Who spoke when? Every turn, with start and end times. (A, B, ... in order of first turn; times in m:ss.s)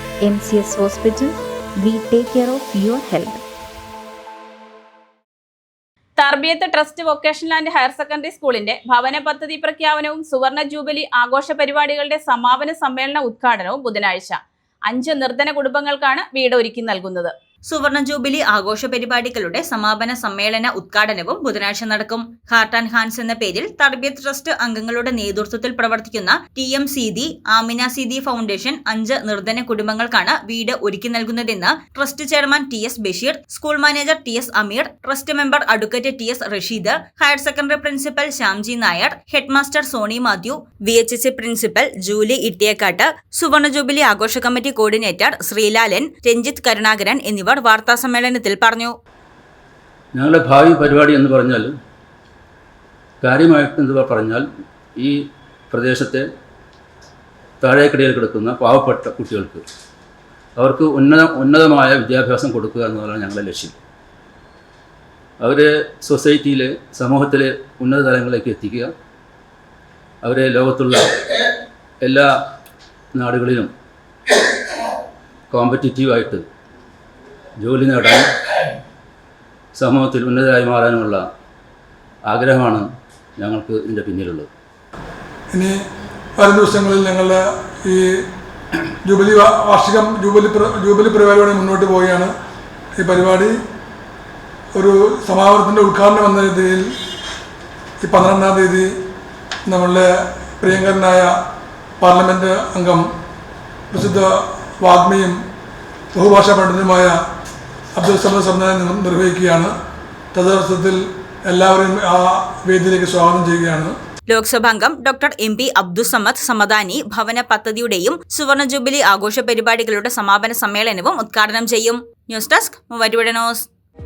0:00.2-0:03.4 A
0:06.2-0:14.4 B
0:14.9-0:17.3 B
0:17.7-0:48.9 C
0:50.1-0:51.7 D
0:53.2-0:54.4 D
0:55.7-0:56.2 D
0:57.6-0:59.6 D
1:00.6-1:03.8 D
1:05.4-1:08.9 D
1:10.2-1:11.1 D
1:13.1-1:13.7 D
1:15.5-1:16.4 D
1:17.6-1:18.2 D
1:19.8-1:21.2 D
1:22.3-1:22.9 D
1:23.4-1:24.5 D
1:25.5-1:25.8 E
1:26.4-1:28.2 E
1:29.0-1:32.3 E
1:33.0-1:33.6 E
1:34.7-1:36.9 E
1:38.0-1:38.9 E
1:39.7-1:41.3 E
1:42.0-1:43.0 E
1:43.9-1:45.4 E
1:46.1-1:47.1 E
1:48.0-1:49.7 E
1:50.3-1:53.9 E
1:54.3-2:03.7 C